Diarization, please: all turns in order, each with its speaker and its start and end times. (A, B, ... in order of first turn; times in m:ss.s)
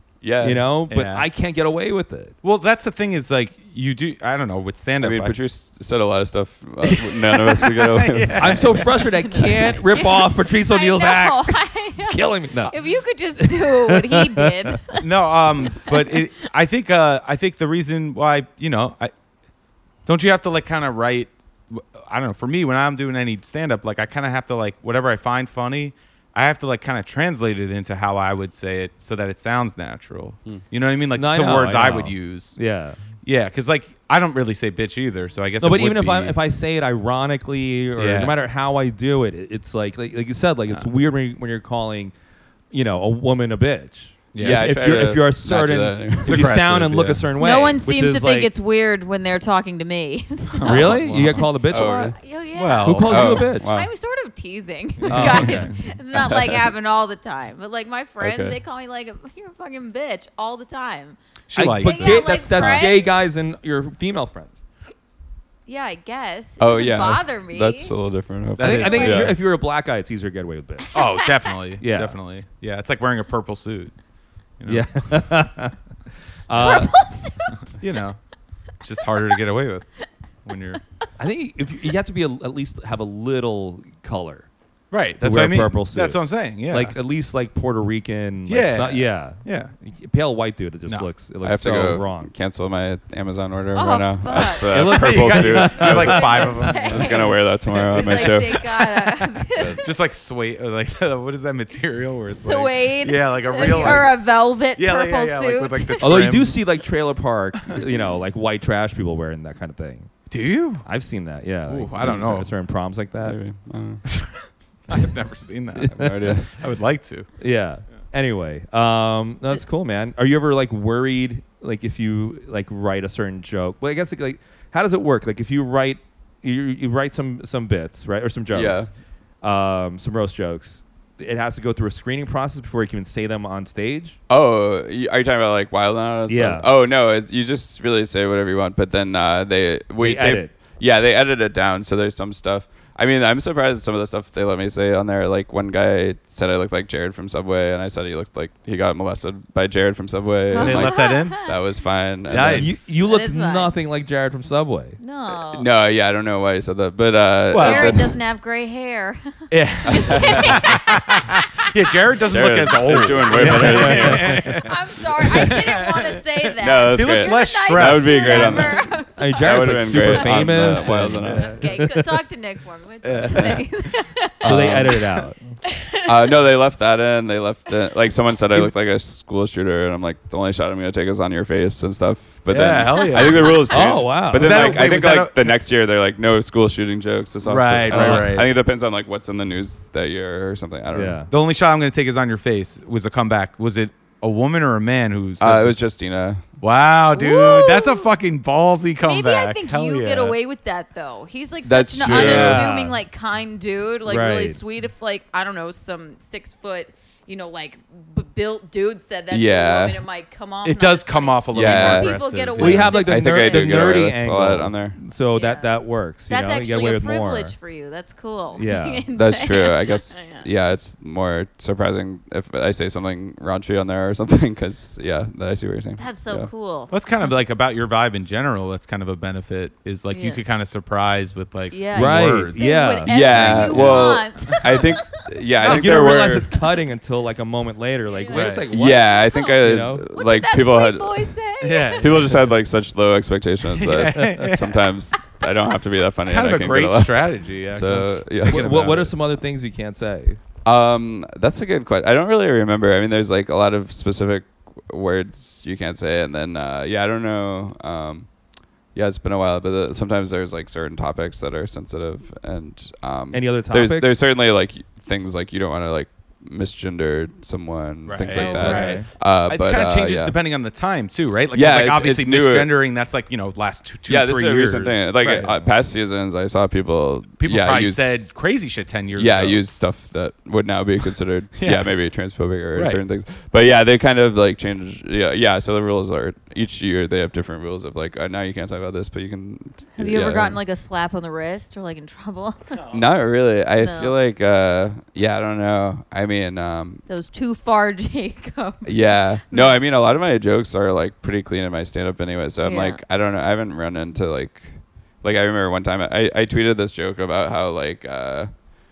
0:00.2-0:00.6 A
0:00.4-0:02.4 B
0:00.9-0:01.3 C
0:02.4-0:05.4 C
0:05.0-0:08.7 A
0:06.8-0:09.5 C
0:08.4-0:12.8 B
0:09.2-0:15.1 D
0:13.4-0:14.8 B
0:15.0-0:19.1 C
0:15.7-0:16.2 D
0:20.1-0:32.6 C
0:31.1-0:33.0 B
0:33.2-0:36.4 C
0:35.6-0:42.1 B
0:38.0-0:38.4 C
0:42.7-0:48.5 B
0:44.3-0:44.7 C
0:44.4-0:46.6 A
0:46.2-0:47.2 C
0:47.4-0:50.9 D
0:50.6-0:51.5 C
0:50.6-0:52.2 B
0:51.0-0:52.2 A
0:51.7-1:01.2 D
0:52.6-0:53.4 C
0:52.8-0:53.7 B
0:53.1-0:53.9 A
0:55.1-0:55.7 C
0:55.1-0:55.7 B
0:56.1-0:56.6 A
0:58.2-0:58.6 A
1:01.5-1:02.5 C
1:01.6-1:04.5 B
1:01.8-1:03.1 D
1:02.6-1:02.8 A
1:05.7-1:07.9 D
1:06.6-1:09.4 A
1:08.6-1:09.3 C
1:08.6-1:11.0 B
1:10.9-1:11.3 D
1:10.9-1:13.9 C
1:11.8-1:12.2 B
1:14.6-1:15.4 C
1:14.7-1:15.8 B
1:16.5-1:16.9 B
1:16.6-1:17.8 D
1:16.6-1:16.8 C
1:17.6-1:18.2 C
1:18.8-1:19.9 C
1:20.4-1:20.8 C
1:21.2-1:24.5 B
1:24.9-1:27.0 C
1:25.2-1:32.3 B
1:28.5-1:29.7 C
1:31.4-1:38.7 A
1:33.7-1:34.9 D
1:34.7-1:37.3 B
1:34.9-1:44.2 C
1:35.8-1:39.8 D
1:42.3-1:46.1 D
1:43.8-1:44.0 B
1:44.7-1:46.6 C
1:46.0-1:50.1 B
1:50.3-1:50.8 C
1:50.8-1:53.4 B
1:51.7-1:52.5 C
1:53.2-1:54.0 A
1:54.1-1:57.3 C
1:55.8-1:56.4 B
1:55.9-1:56.6 A
1:57.4-2:08.9 B
2:08.5-2:08.9 A
2:09.4-2:14.2 B
2:14.3-2:32.8 A
2:16.3-2:16.7 B
2:20.0-2:20.5 B
2:30.5-2:31.6 D
2:30.6-2:31.4 C
2:32.3-2:32.8 C
2:32.5-2:35.0 B
2:33.0-2:33.7 D
2:35.0-2:35.7 D
2:35.5-2:38.2 A
2:37.5-2:38.0 C
2:37.6-2:41.7 D
2:39.5-2:46.2 C
2:39.9-2:40.6 A
2:42.3-2:44.6 A
2:43.3-2:44.5 B
2:44.4-2:54.9 D
2:46.6-2:51.6 A
2:46.9-2:48.8 C
2:49.2-2:51.7 B
2:51.2-2:51.6 C
2:53.0-2:53.6 C
2:54.4-2:55.0 A
2:54.4-2:55.4 B
2:55.8-2:56.1 D
2:56.0-3:11.3 A
3:02.5-3:03.8 C
3:02.9-3:03.7 D
3:03.7-3:04.8 B
3:04.3-3:05.6 C
3:07.4-3:08.5 C
3:07.9-3:08.4 B
3:10.9-3:11.3 B
3:11.3-3:15.8 C
3:15.4-3:16.4 A
3:16.6-3:20.4 C
3:17.1-3:18.1 D
3:19.0-3:34.0 D
3:21.6-3:22.7 A
3:22.0-3:22.9 B
3:22.2-3:22.6 C
3:24.1-3:24.6 B
3:29.3-3:30.0 A
3:30.6-3:32.9 C
3:31.5-3:35.0 A
3:32.6-3:37.6 B
3:35.3-3:35.8 D
3:36.3-3:40.5 D
3:38.6-3:39.1 B
3:39.1-3:46.5 A
3:46.0-3:47.3 D
3:46.9-3:52.7 C
3:50.1-3:50.4 D
3:51.7-3:55.2 D
3:51.9-3:54.1 B
3:53.1-3:56.5 A
3:53.7-3:54.6 C
3:55.6-4:00.0 B
3:58.1-4:02.1 D
3:58.3-3:58.7 C
3:58.7-4:01.3 A
4:01.6-4:02.5 C
4:02.0-4:09.0 A
4:03.7-4:04.9 C
4:04.1-4:04.4 B
4:06.2-4:09.1 C
4:08.4-4:10.4 B
4:10.6-4:18.3 A
4:18.9-4:30.4 A
4:23.3-4:24.2 B
4:28.1-4:35.6 C
4:28.3-4:29.0 D
4:28.6-4:29.1 B
4:31.5-4:32.7 A
4:34.1-4:38.2 A
4:37.4-4:39.6 C
4:39.2-4:50.6 A
4:41.6-4:41.9 C
4:42.8-4:43.0 C
4:50.0-4:52.8 D
4:52.9-4:57.0 A
4:53.8-4:54.2 D
4:57.1-4:59.8 D
4:58.9-5:08.5 A
5:02.6-5:03.0 D